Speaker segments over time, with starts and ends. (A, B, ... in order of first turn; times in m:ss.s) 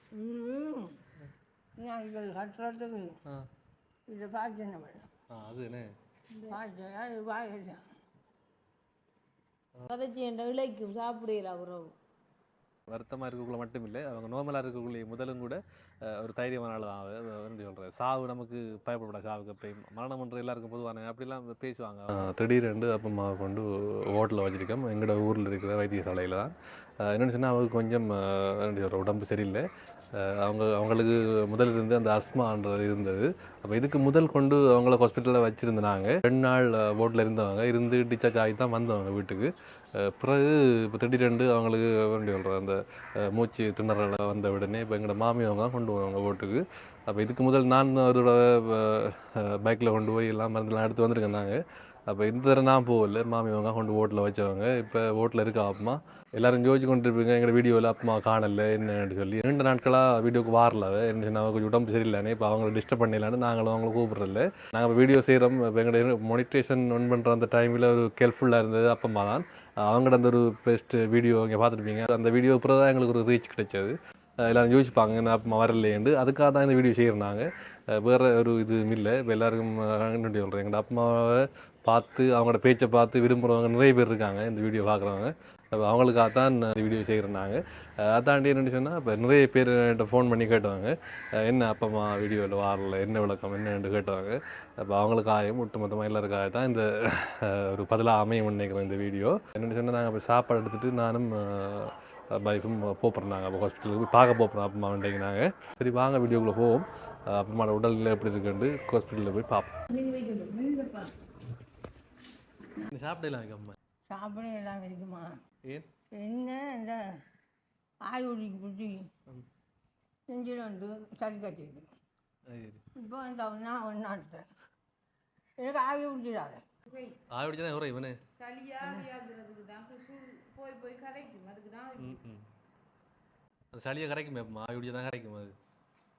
0:00.1-0:01.0 A
0:01.8-0:03.2 A
0:04.1-0:05.0 A
0:05.3-0:05.9 B
0:06.3-0:06.6 C
0:06.5-0:07.8 A
0:09.9-0:11.9 C
0:12.9-1:49.8 B
1:49.9-1:50.5 C
1:50.4-1:51.1 A
1:52.8-1:53.8 B
1:54.1-1:55.4 A
1:56.1-1:57.0 A
1:58.0-1:59.0 A
2:00.3-2:01.9 A
2:02.5-2:02.8 B
2:03.0-2:04.4 A
2:05.6-2:06.6 A
2:06.9-2:07.2 C
2:07.3-2:08.2 B
2:08.4-2:12.2 C
2:08.8-2:09.1 A
2:12.0-2:12.4 B
2:13.7-2:15.5 B